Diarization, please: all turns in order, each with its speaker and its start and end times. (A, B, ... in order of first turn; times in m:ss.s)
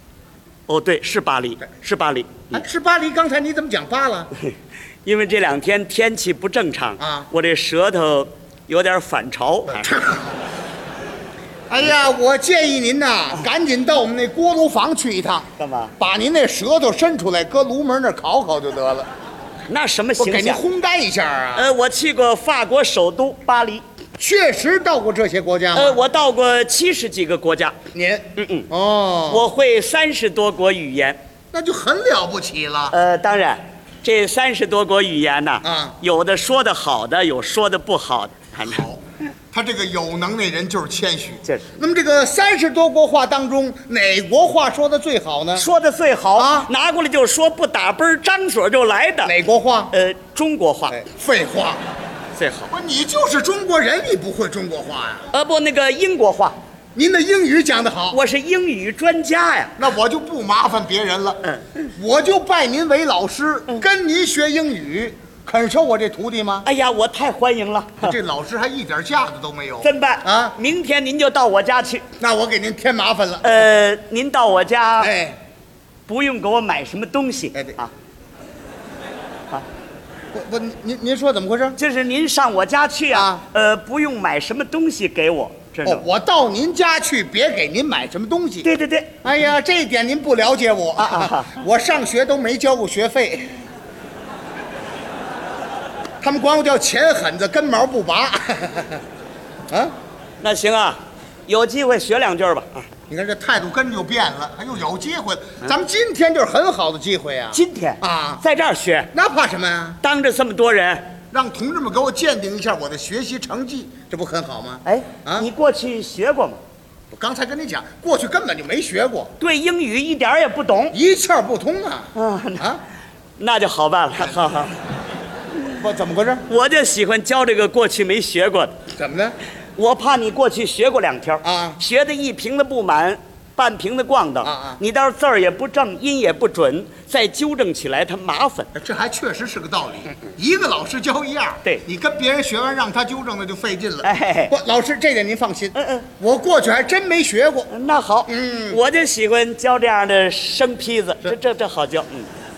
0:00.7-0:02.6 A
0:02.5-0:04.3 B
0:05.0-0:09.9 A
0:07.0-0:07.3 B
0:09.8-0:10.4 B
0:11.7-0:19.1 B
0:15.6-0:15.9 A
0:19.7-0:20.6 A
0:20.2-0:21.7 B
0:21.6-0:23.8 A
0:24.2-0:26.0 B
0:25.7-0:27.8 A
0:27.9-0:29.5 B
0:28.4-0:28.7 A
0:29.3-0:31.2 A
0:31.5-0:33.0 B
0:32.9-0:38.8 A
0:35.6-0:36.0 B
0:38.6-0:39.0 B
0:39.5-0:45.6 B
0:41.4-0:41.7 A
0:45.6-0:49.3 A
0:46.4-0:46.7 B
0:49.2-0:49.9 B
0:49.9-0:51.0 A
0:50.9-0:51.8 B
0:52.3-0:52.7 A
0:52.7-0:55.3 B
0:55.3-0:56.6 A
0:56.9-0:58.2 B
0:58.1-0:59.8 A
0:59.8-1:01.4 B
1:01.9-1:06.7 B
1:06.6-1:08.1 A
1:08.0-1:10.6 B
1:09.8-1:12.0 A
1:12.2-1:13.6 B
1:13.4-1:15.1 A
1:15.0-1:15.4 B
1:16.1-1:17.9 A
1:20.3-1:21.8 B
1:21.8-1:26.0 A
1:23.1-1:23.4 B
1:25.8-1:28.7 B
1:28.6-1:29.2 A
1:29.2-1:33.6 B
1:31.0-1:31.6 A
1:36.2-1:39.0 B
1:39.7-1:39.9 B
1:40.4-1:42.9 A
1:43.1-1:48.4 B
1:47.5-1:49.1 A
1:49.1-1:50.0 B
1:50.0-1:51.1 A
1:51.3-1:55.5 B
1:54.8-1:56.6 A
1:57.1-1:59.3 B
1:59.4-2:01.0 A
2:00.9-2:02.8 B
2:02.1-2:02.7 A
2:03.4-2:04.8 A
2:05.8-2:06.4 B
2:06.5-2:08.8 A
2:09.0-2:09.4 B
2:09.8-2:18.7 A
2:11.4-2:11.8 B
2:14.4-2:14.8 B
2:18.7-2:27.7 B
2:24.0-2:24.5 A
2:25.7-2:26.1 A
2:27.7-2:32.3 A
2:28.3-2:28.8 B